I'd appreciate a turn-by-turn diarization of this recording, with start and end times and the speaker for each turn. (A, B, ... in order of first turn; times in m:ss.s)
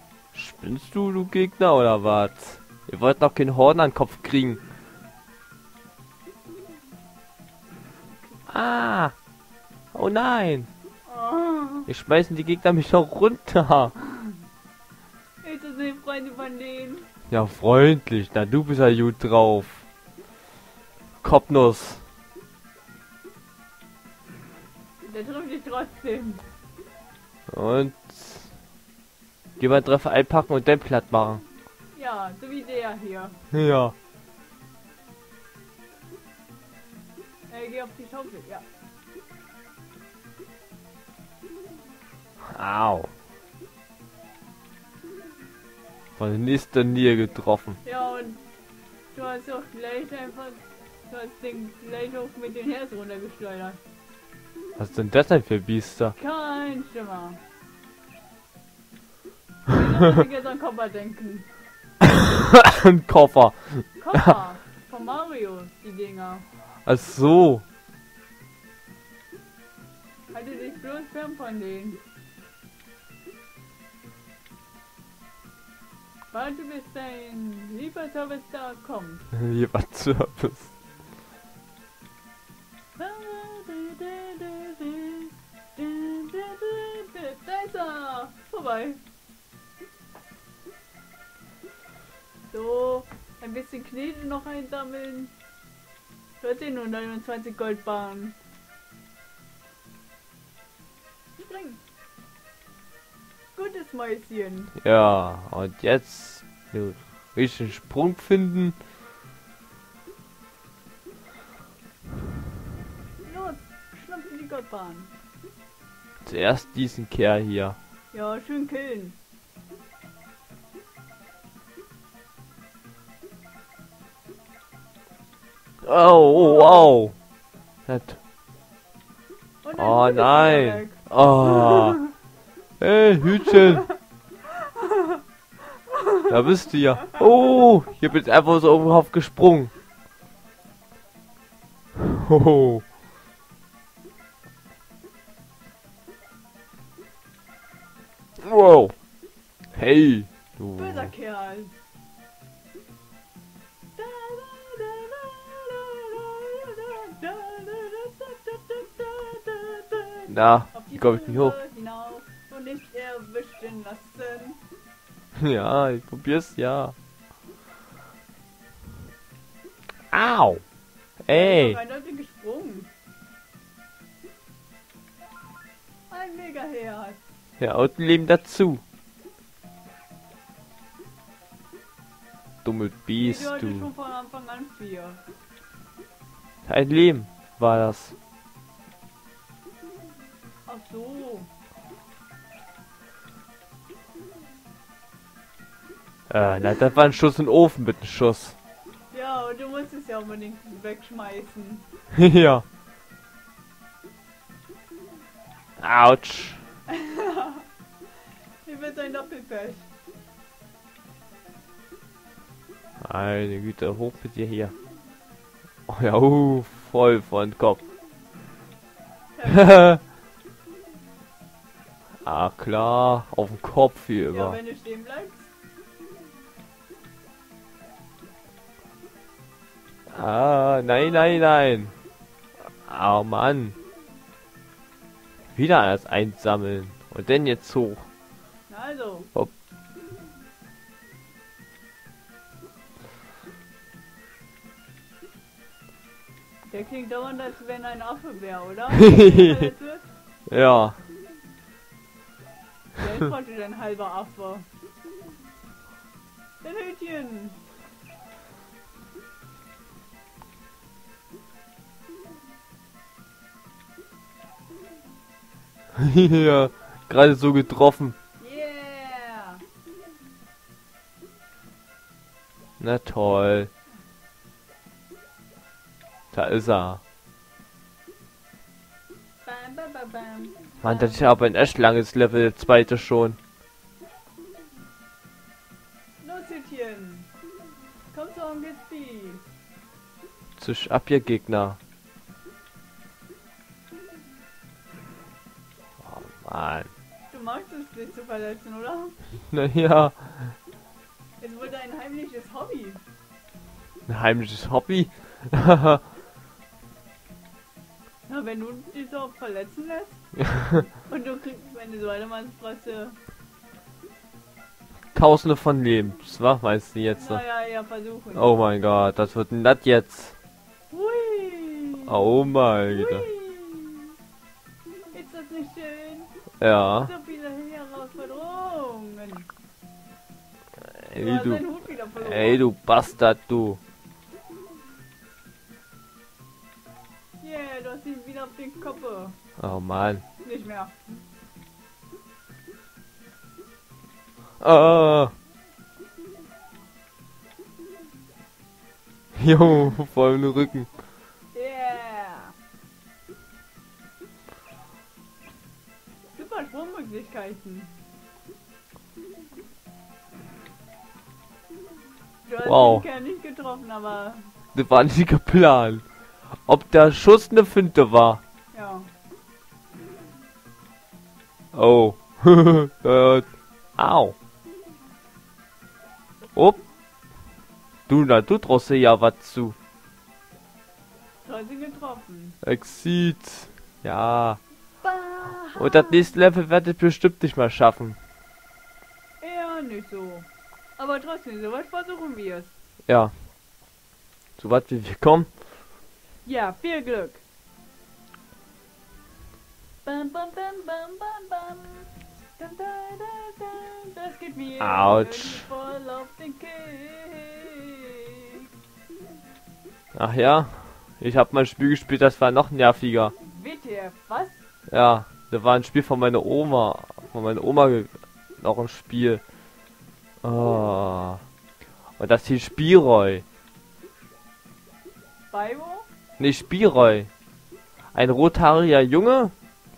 0:00.3-0:04.6 A
0:08.5-0:09.1 A
0:09.9-0:10.7 A
0:11.0-0:11.9 B
0:11.9-0:13.9 A
0:15.4-0:17.1 B
0:17.3-0:19.8 A
0:21.2-0:22.0 A
0:25.0-0:26.4 B
0:27.5-0:28.5 A
0:29.6-0:31.4 A
0:31.9-0:33.4 B
0:33.5-0:33.9 A
0:37.5-0:38.6 B
0:42.5-0:43.1 A
0:46.2-0:47.8 A
0:47.8-0:48.4 B
0:49.1-0:53.8 B
0:54.8-0:56.1 A
0:56.2-0:57.4 B
0:59.7-1:01.5 B
1:02.3-1:04.3 A
1:04.0-1:06.4 B
1:06.8-1:07.6 A
1:10.3-1:12.0 B
1:16.3-1:19.2 B
1:19.3-1:20.7 A
1:23.0-1:29.0 B
1:32.5-1:35.3 B
1:36.4-1:38.4 B
1:41.4-1:41.8 B
1:43.6-1:44.7 B
1:44.8-1:48.8 A
1:53.2-1:55.1 B
1:56.2-1:57.8 A
1:58.1-1:59.2 B
2:05.8-2:07.1 A
2:06.3-2:06.9 B
2:07.9-2:08.2 A
2:09.6-2:12.0 B
2:09.8-2:12.0 A
2:12.8-2:13.8 A
2:16.3-2:19.7 A
2:22.1-2:22.8 A
2:28.4-2:28.9 A
2:29.7-2:31.1 A
2:30.8-2:31.7 B
2:34.0-2:44.6 B
2:40.3-2:41.6 A
2:45.4-2:46.9 A
2:50.1-2:50.6 A
2:51.2-2:51.8 A
2:51.3-2:52.9 B
2:56.1-2:57.2 B
2:57.6-2:58.8 A
3:02.6-3:03.9 A
3:03.2-3:05.2 B
3:06.6-3:08.1 A
3:10.6-3:11.5 B
3:16.3-3:18.6 A
3:19.1-3:21.8 B
3:22.2-3:22.6 A
3:25.8-3:26.6 A
3:26.9-3:27.6 B
3:28.6-3:29.9 B
3:33.0-3:34.7 A
3:35.9-3:37.8 A
3:39.4-3:39.8 B
3:39.5-3:40.0 A
3:42.2-3:44.6 A
3:44.3-3:45.5 B
3:50.1-3:51.9 A
3:50.8-3:51.4 B
3:52.8-3:53.8 A
3:55.5-3:58.0 A
3:58.7-3:59.3 B
4:06.6-4:10.0 B
4:09.0-4:09.4 A
4:10.5-4:11.0 A
4:13.0-4:14.7 B
4:16.6-4:17.6 B
4:26.0-4:28.1 A
4:28.4-4:29.6 B
4:32.8-4:33.7 A
4:36.3-4:37.0 A
4:39.4-4:41.3 B
4:40.8-4:43.4 A
4:46.2-4:47.3 B
4:48.1-4:49.4 B
4:50.6-4:51.8 A
4:56.0-4:56.9 A
4:57.3-4:59.2 B
4:59.5-5:00.5 A
5:01.4-5:03.0 B
5:04.1-5:06.0 A
5:08.3-5:13.2 B
5:15.1-5:17.4 A
5:17.2-5:18.6 B
5:18.3-5:20.3 A
5:20.9-5:22.2 B
5:22.1-5:23.2 A
5:22.9-5:24.1 B
5:25.1-5:26.3 B
5:26.6-5:27.1 A
5:27.0-5:29.5 B
5:30.9-5:31.6 A
5:31.2-5:32.6 B
5:32.2-5:33.8 A
5:37.4-5:39.4 B
5:39.6-5:40.2 A
5:40.4-5:41.0 B
5:44.6-5:45.3 A
5:49.3-5:50.9 A
5:51.5-5:52.5 B
5:56.3-5:58.0 B
6:02.4-6:04.4 B
6:02.6-6:03.0 A
6:04.7-6:06.0 A
6:06.6-6:08.4 A
6:08.7-6:09.1 B
6:11.7-6:14.3 A
6:16.5-6:16.8 A
6:18.1-6:19.7 A
6:21.4-6:22.6 B
6:22.6-6:24.6 A
6:25.0-6:26.2 B
6:25.7-6:28.2 A
6:29.4-6:32.7 B
6:33.1-6:33.3 A
6:34.6-6:35.5 A
6:36.4-6:37.4 B
6:40.0-6:48.5 B
6:44.8-6:45.7 A
6:50.1-6:53.3 A
6:53.4-6:54.6 B
6:54.9-6:59.4 A
7:00.4-7:01.4 A
7:02.2-7:03.4 A
7:05.5-7:06.1 B
7:06.4-7:07.3 A
7:08.1-7:09.5 A